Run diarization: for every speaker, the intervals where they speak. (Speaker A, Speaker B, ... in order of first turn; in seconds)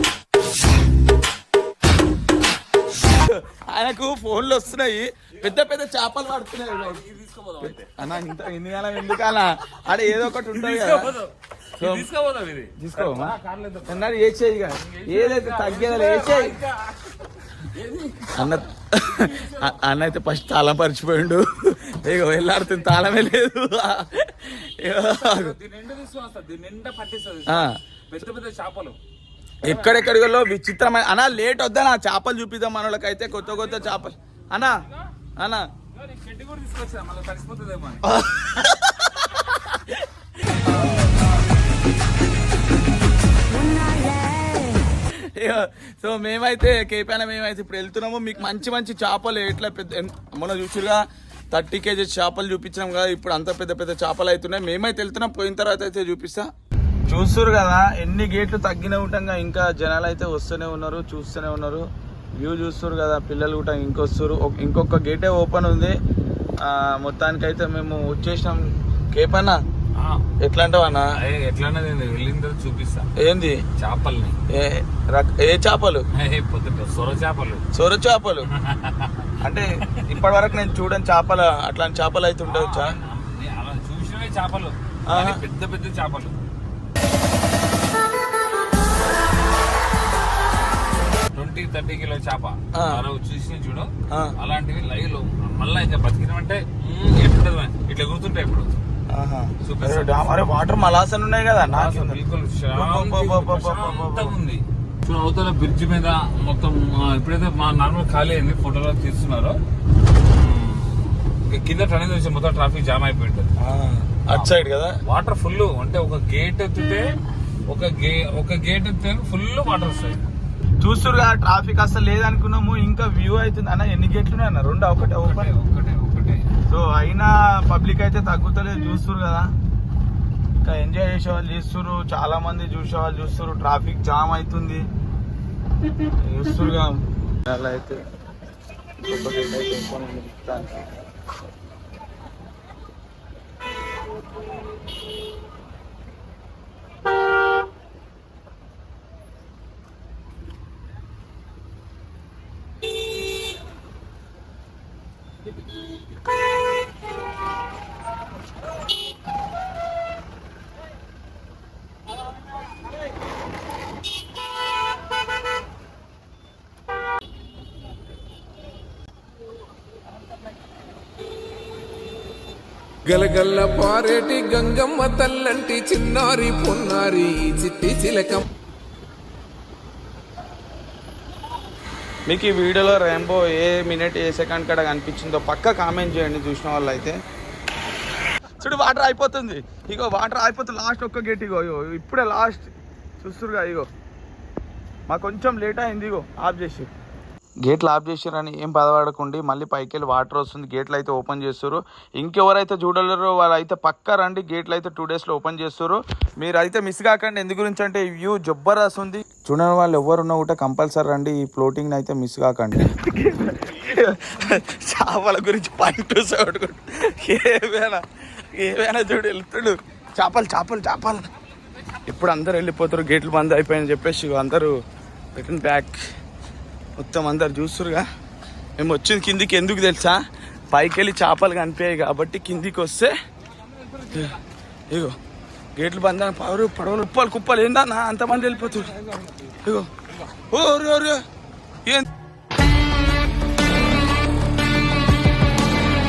Speaker A: 3.0-7.0, 7.6-11.1, 11.8-12.1, 12.8-13.3, 13.9-16.6, 18.3-25.6, 27.5-27.8, 29.6-34.8, 38.0-40.0, 45.3-56.5, 57.1-61.9, 62.4-65.9, 66.6-68.6, 69.1-69.6, 70.4-71.1, 73.2-73.6, 74.5-76.0, 77.7-78.5, 79.4-83.0, 85.1-85.4, 92.7-93.0, 99.1-102.2, 102.8-104.3, 113.6-115.0, 120.8-125.5, 126.7-129.5, 130.6-134.8, 136.1-138.0, 139.0-140.8, 182.3-187.2, 188.6-192.7, 193.2-193.9, 195.1-196.9, 197.6-221.3, 222.1-224.7, 225.3-226.0, 227.0-228.1, 228.8-230.2, 230.7-233.1, 235.8-238.9, 239.6-241.2
Speaker B: 6.7-8.1, 9.9-14.1, 14.8-19.8, 25.0-29.0, 29.7-30.1, 33.4-34.0, 36.0-38.0, 70.0-70.3, 71.2-73.1, 73.8-74.4, 76.2-77.6, 78.5-79.4, 79.9-80.3, 82.5-86.3, 91.3-98.8, 99.6-100.6, 101.7-109.6, 110.2-113.5, 114.3-117.2, 117.7-120.3, 125.0-126.5, 233.5-234.4, 238.3-240.3
Speaker C: 173.1-178.4